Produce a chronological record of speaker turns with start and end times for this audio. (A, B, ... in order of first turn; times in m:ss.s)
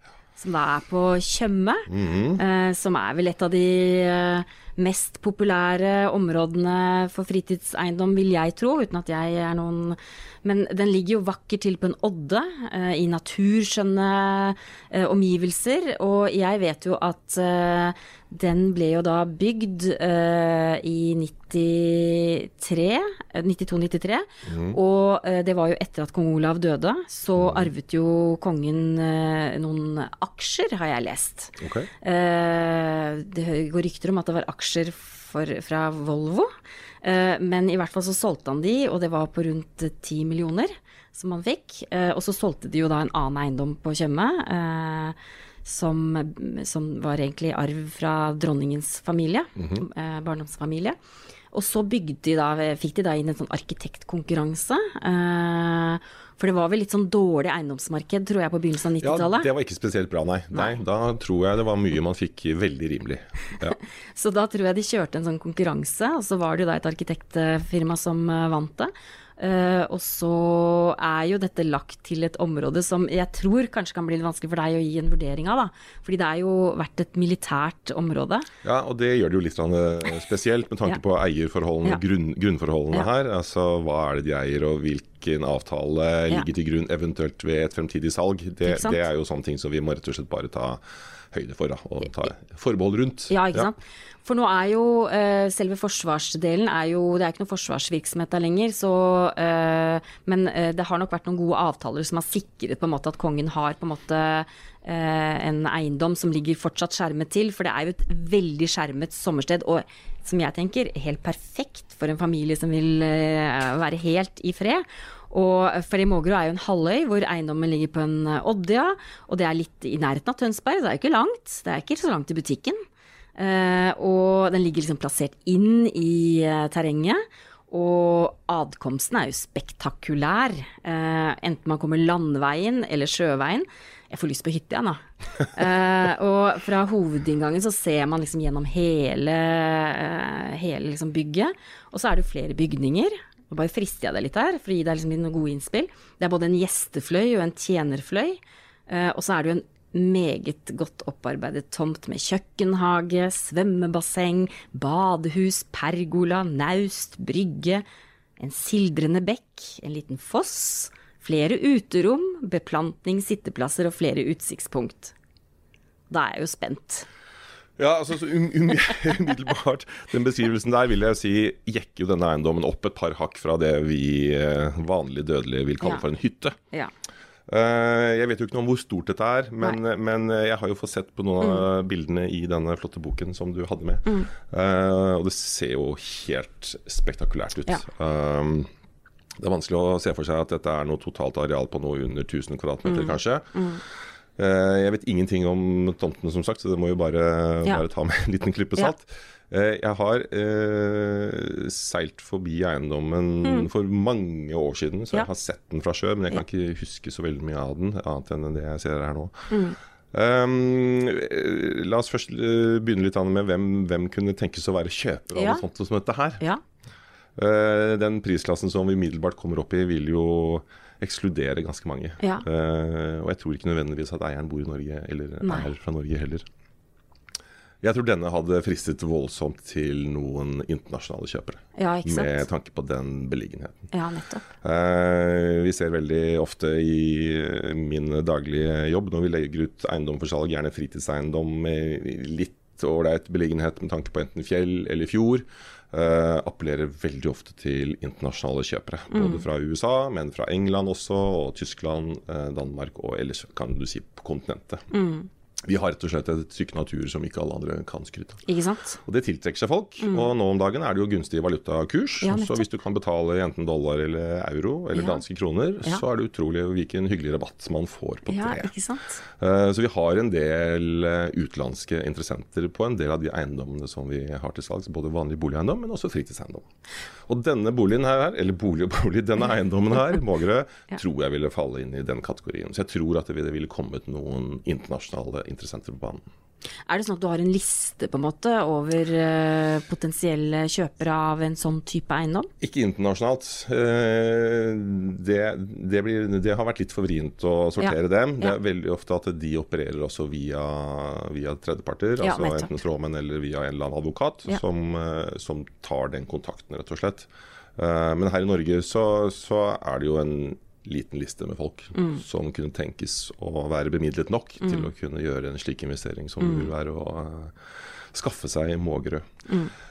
0:00.4-0:36.5 A
0:01.9-0:02.4 B
0:24.4-0:24.8 B
0:27.4-0:27.7 B
0:31.6-0:31.9 B
0:37.0-0:51.0 A
0:49.6-0:49.8 B
0:51.5-0:59.5 A
0:59.0-1:03.8 B
1:04.2-1:18.5 A
1:18.6-1:33.7 B
1:28.6-1:29.0 A
1:33.3-2:02.8 A
2:03.4-2:37.8 A
2:38.4-2:45.1 A
2:46.1-2:47.1 A
2:47.8-2:56.6 B
2:57.5-3:08.7 B
3:09.4-3:13.6 B
3:12.8-3:13.8 A
3:14.4-3:29.5 B
3:29.5-3:29.8 A
3:30.1-3:36.4 B
3:35.3-3:35.6 A
3:37.4-3:46.4 B
3:42.2-3:42.4 A
3:45.4-3:45.7 A
3:47.8-3:53.9 B
3:51.8-3:52.4 A
3:53.9-3:54.4 A
3:54.6-4:14.9 B
4:09.1-4:09.4 A
4:14.9-4:15.3 A
4:15.6-4:18.4 B
4:18.5-4:19.0 A
4:19.0-4:28.7 B
4:20.0-4:20.3 A
4:22.2-4:22.6 A
4:24.9-4:25.2 A
4:28.3-4:29.2 A
4:29.4-4:36.6 B
4:37.3-4:46.2 B
4:46.9-4:52.5 A
4:52.6-5:19.3 B
5:02.2-5:02.8 A
5:11.9-5:12.2 A